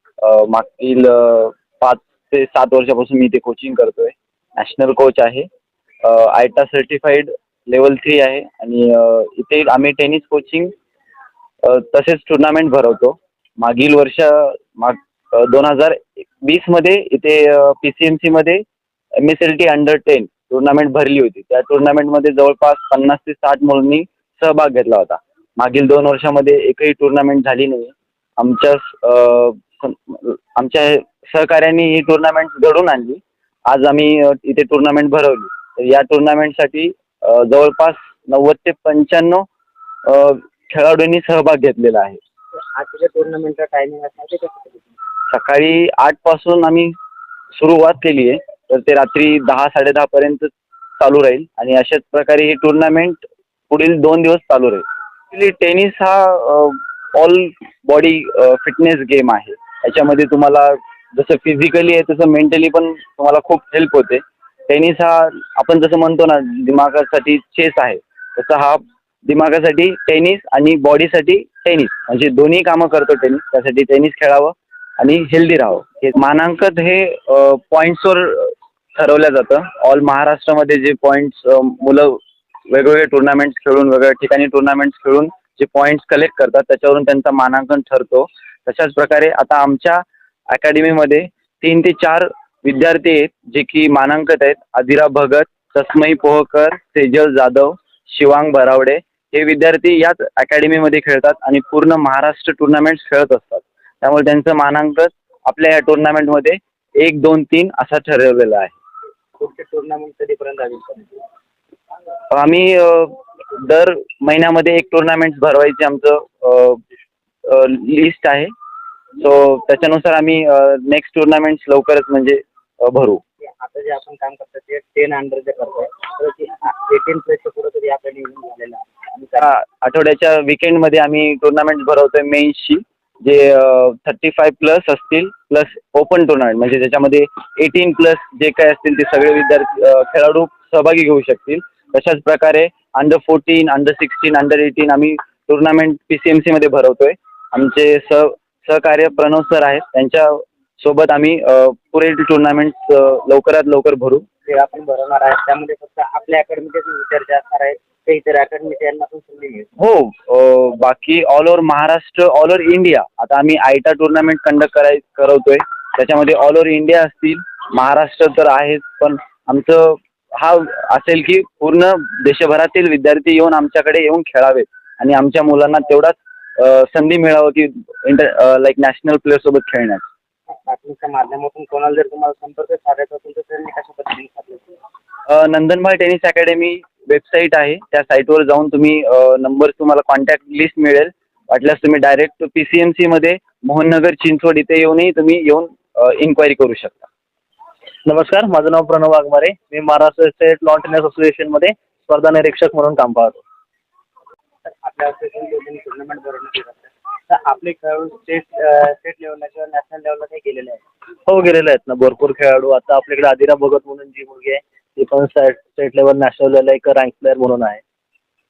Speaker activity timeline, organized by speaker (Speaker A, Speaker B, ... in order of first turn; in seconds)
Speaker A: 0.2-5.5, 6.0-10.7, 11.6-18.6, 19.2-39.4, 40.0-42.2, 45.3-46.9, 47.5-108.7, 112.3-116.8, 117.4-118.5, 119.2-123.2, 129.4-154.2, 159.8-180.0, 185.3-197.1
Speaker B: 42.5-45.0, 109.4-111.2, 123.4-129.5, 154.5-159.7, 180.5-184.8, 204.6-210.8
Speaker C: 198.1-203.4, 211.3-217.8